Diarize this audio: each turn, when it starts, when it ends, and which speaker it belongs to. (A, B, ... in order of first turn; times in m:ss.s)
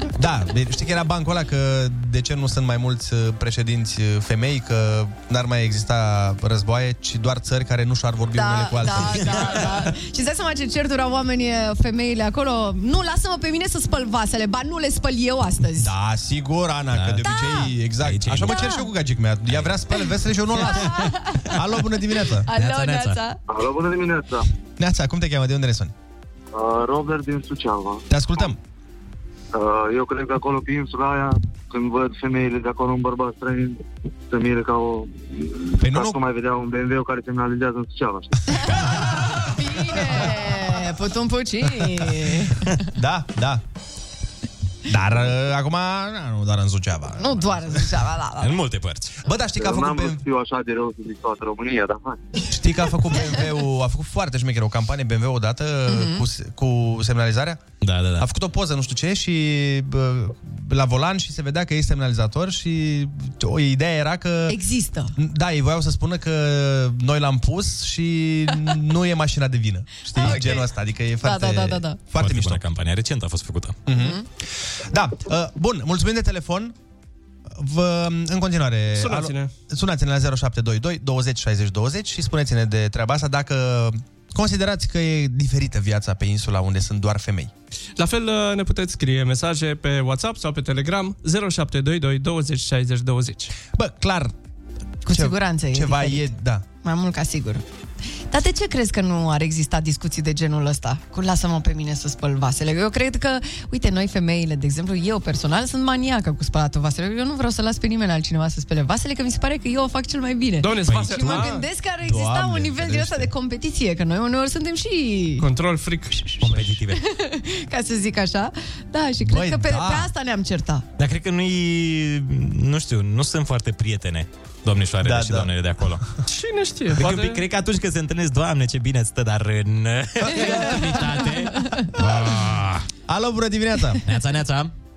0:00.1-0:09.7 A
0:08.3-0:15.9 B
0:09.1-0:09.6 C
0:15.8-0:22.5 A
0:16.9-0:17.2 C
0:17.2-0:17.7 B
0:18.0-0:18.6 C
0:18.5-0:18.9 B
0:20.5-0:21.5 B
0:20.6-0:21.1 C
0:22.4-0:23.4 B
0:22.5-0:23.2 C
0:23.5-0:24.5 D
0:24.8-0:25.9 A
0:26.5-0:28.0 D
0:28.1-0:28.6 A
0:29.5-0:38.7 D
0:35.8-0:36.2 A
0:38.5-0:42.8 B
0:42.9-0:43.6 A
0:44.8-0:47.9 A
0:47.2-0:48.6 B
0:48.4-0:49.2 C
0:49.2-0:50.2 A
0:49.6-0:52.2 D
0:52.5-0:57.6 A
0:55.9-0:56.2 B
0:57.8-0:58.2 C
0:58.2-1:04.6 A
1:04.5-1:05.1 B
1:05.1-1:12.6 A
1:10.1-1:10.7 B
1:11.2-1:12.0 B
1:12.2-1:13.8 C
1:13.8-1:16.7 A
1:13.9-1:14.2 B
1:17.5-1:27.5 A
1:18.9-1:19.5 E
1:28.0-1:33.5 E
1:33.7-1:34.3 A
1:35.0-1:36.3 B
1:35.1-1:36.6 A
1:36.8-1:37.6 B
1:38.3-1:55.5 B
1:50.6-1:51.5 E
1:50.9-1:51.2 C
1:50.9-1:53.3 A
1:55.4-1:56.3 E
1:56.4-1:57.0 C
1:56.9-2:00.8 B
1:59.2-2:00.1 A
2:01.0-2:06.1 C
2:05.0-2:05.5 A
2:06.3-2:07.4 E
2:07.0-2:12.9 C
2:10.3-2:10.8 A
2:11.5-2:11.8 B
2:13.1-2:14.0 A
2:14.0-2:14.7 C